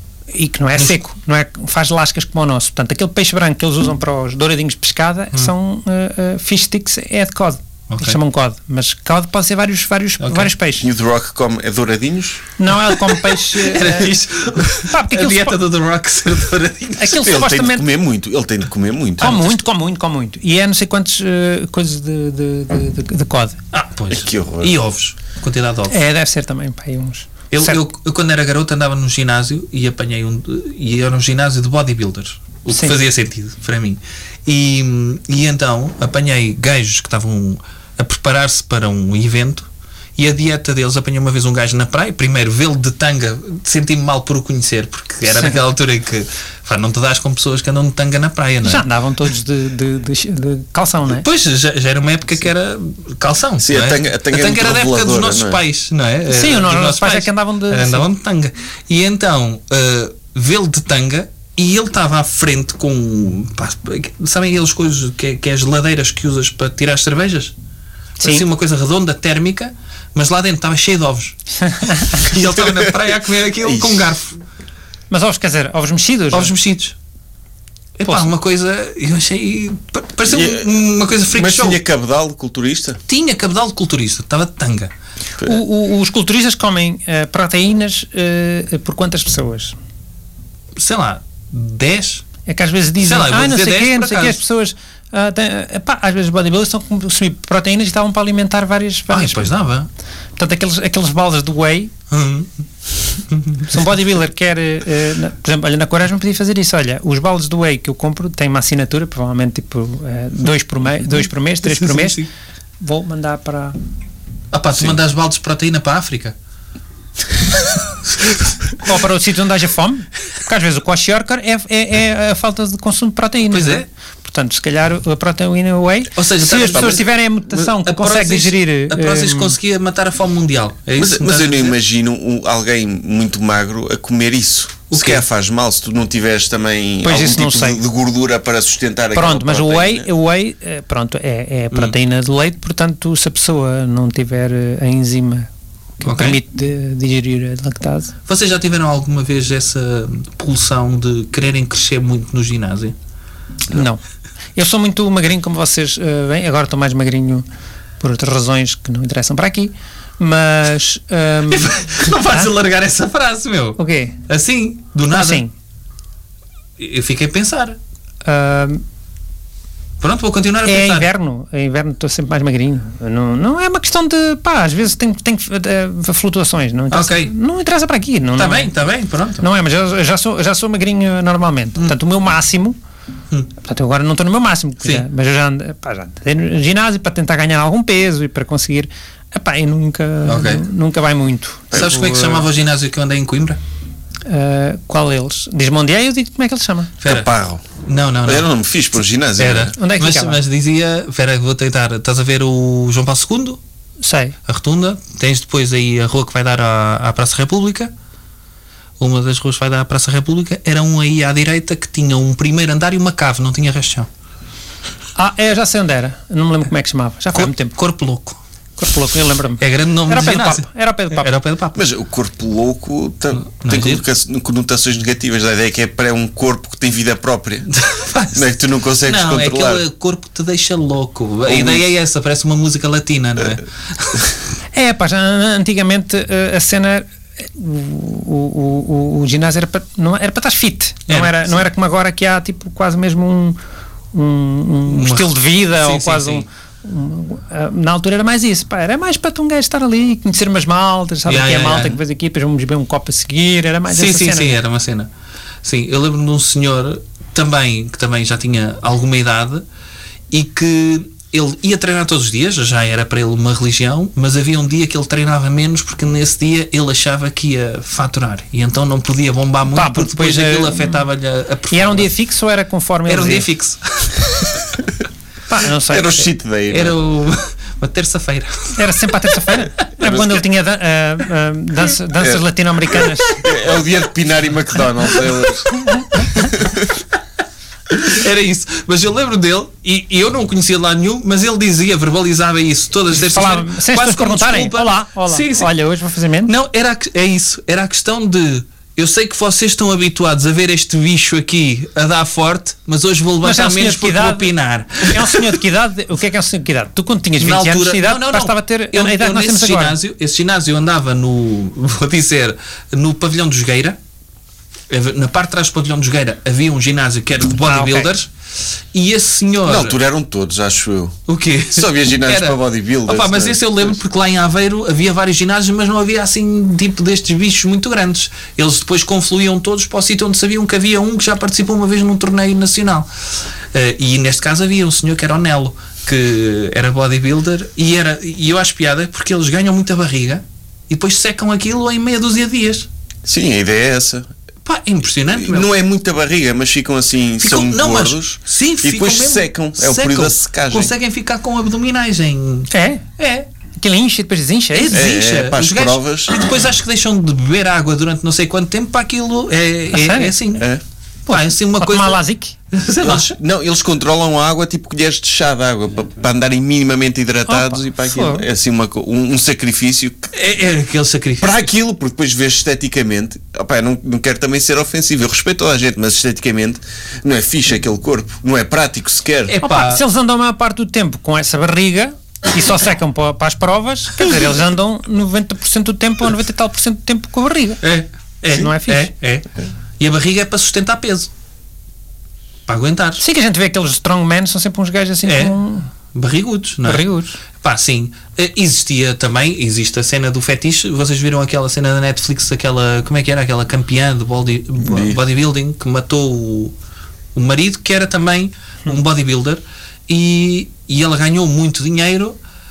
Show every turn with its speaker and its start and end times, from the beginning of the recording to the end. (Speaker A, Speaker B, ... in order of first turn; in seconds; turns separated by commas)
Speaker A: 0.3-10.9, Speaker B: 7.9-8.2, Speaker B: 10.2-10.5, Speaker C: 10.8-12.5, Speaker A: 12.6-14.2, Speaker B: 13.0-17.2, Speaker A: 14.8-15.6, Speaker A: 17.0-17.9, Speaker C: 17.2-19.5, Speaker A: 19.2-23.6, Speaker B: 23.7-26.0, Speaker C: 24.1-24.7, Speaker A: 25.9-27.8, Speaker B: 27.5-48.9, Speaker A: 32.7-33.0, Speaker A: 45.3-45.6, Speaker A: 48.6-51.2, Speaker B: 51.1-67.5, Speaker C: 53.6-55.6, Speaker A: 56.3-58.1, Speaker A: 68.2-68.5, Speaker B: 68.2-71.4, Speaker A: 71.6-72.2, Speaker B: 72.0-74.4, Speaker C: 73.6-74.0, Speaker A: 75.1-76.5, Speaker B: 76.3-77.0, Speaker B: 78.0-81.8, Speaker C: 80.3-80.7, Speaker C: 81.3-83.0, Speaker B: 83.1-84.9, Speaker A: 85.4-89.8, Speaker B: 90.8-92.2, Speaker A: 92.5-99.5, Speaker B: 93.0-94.4, Speaker B: 99.1-99.9, Speaker A: 100.4-101.9, Speaker B: 102.1-102.5, Speaker B: 103.3-103.7, Speaker A: 103.7-112.2, Speaker B: 111.7-112.3, Speaker A: 112.8-113.8, Speaker B: 114.5-116.3, Speaker A: 118.8-129.6, Speaker B: 123.5-123.9, Speaker B: 126.2-131.8, Speaker C: 126.8-127.0, Speaker C: 131.0-140.1, Speaker B: 134.9-135.2, Speaker A: 137.0-137.8, Speaker A: 139.1-148.1, Speaker B: 146.1-146.4, Speaker B: 148.3-152.9, Speaker A: 153.7-154.0, Speaker A: 154.6-157.5, Speaker A: 158.0-162.5, Speaker B: 161.5-165.4, Speaker A: 163.8-164.2, Speaker A: 165.1-165.5, Speaker B: 166.8-167.8, Speaker A: 168.2-168.8, Speaker B: 170.0-171.1, Speaker A: 170.7-178.7, Speaker B: 176.9-177.3, Speaker B: 178.4-179.4, Speaker A: 179.4-182.8, Speaker A: 183.6-192.0, Speaker B: 190.3-190.6, Speaker C: 191.7-192.2, Speaker B: 191.7-193.6, Speaker A: 194.3-196.9, Speaker B: 197.0-197.3, Speaker C: 197.0-199.8, Speaker B: 197.8-198.5, Speaker B: 199.4-203.6, Speaker A: 199.8-200.4, Speaker A: 204.0-204.4, Speaker B: 204.5-207.9, Speaker B: 209.0-214.1, Speaker A: 215.2-217.8, Speaker B: 217.3-218.4, Speaker A: 218.8-221.3, Speaker B: 219.6-221.8, Speaker C: 221.8-227.7, Speaker B: 223.5-224.0, Speaker B: 227.7-228.5, Speaker C: 228.3-229.8, Speaker B: 229.0-234.3, Speaker C: 231.5-231.8, Speaker A: 234.7-243.6, Speaker B: 241.1-241.6, Speaker A: 244.1-254.6, Speaker B: 244.9-246.5, Speaker B: 251.3-252.0, Speaker B: 253.9-255.1, Speaker B: 255.6-259.6, Speaker B: 260.3-272.1, Speaker A: 269.7-271.0, Speaker A: 271.7-273.5, Speaker B: 273.1-274.8, Speaker A: 275.5-276.3, Speaker C: 275.8-277.0, Speaker B: 276.7-279.3, Speaker A: 278.8-283.4, Speaker C: 280.0-280.3, Speaker C: 283.3-285.7, Speaker C: 286.4-287.0, Speaker B: 287.9-295.7, Speaker A: 293.1-296.5, Speaker B: 296.5-305.6, Speaker A: 303.4-310.0, Speaker B: 307.4-314.0, Speaker B: 314.9-318.3, Speaker A: 317.6-318.1, Speaker B: 318.9-320.0, Speaker C: 319.6-321.2, Speaker B: 321.3-333.1, Speaker C: 321.7-323.9, Speaker B: 333.7-342.9, Speaker C: 343.3-344.3, Speaker B: 344.6-345.7, Speaker C: 345.4-350.9, Speaker B: 347.4-353.5, Speaker A: 352.7-353.1, Speaker A: 353.8-355.0, Speaker B: 354.7-360.7, Speaker C: 354.9-356.4, Speaker A: 359.9-360.4, Speaker C: 360.6-360.8, Speaker A: 361.3-362.5, Speaker B: 361.3-363.4, Speaker C: 363.0-370.3, Speaker A: 367.5-368.4, Speaker B: 370.3-371.6, Speaker C: 371.4-379.6, Speaker B: 379.5-380.0, Speaker A: 379.6-387.8, Speaker B: 387.8-389.5, Speaker A: 388.5-389.1, Speaker B: 390.0-391.3, Speaker B: 392.7-393.2, Speaker A: 393.2-395.9, Speaker B: 395.3-395.6, Speaker B: 396.1-397.1, Speaker A: 396.8-397.4, Speaker B: 397.6-406.7, Speaker C: 404.8-405.2, Speaker B: 407.4-412.4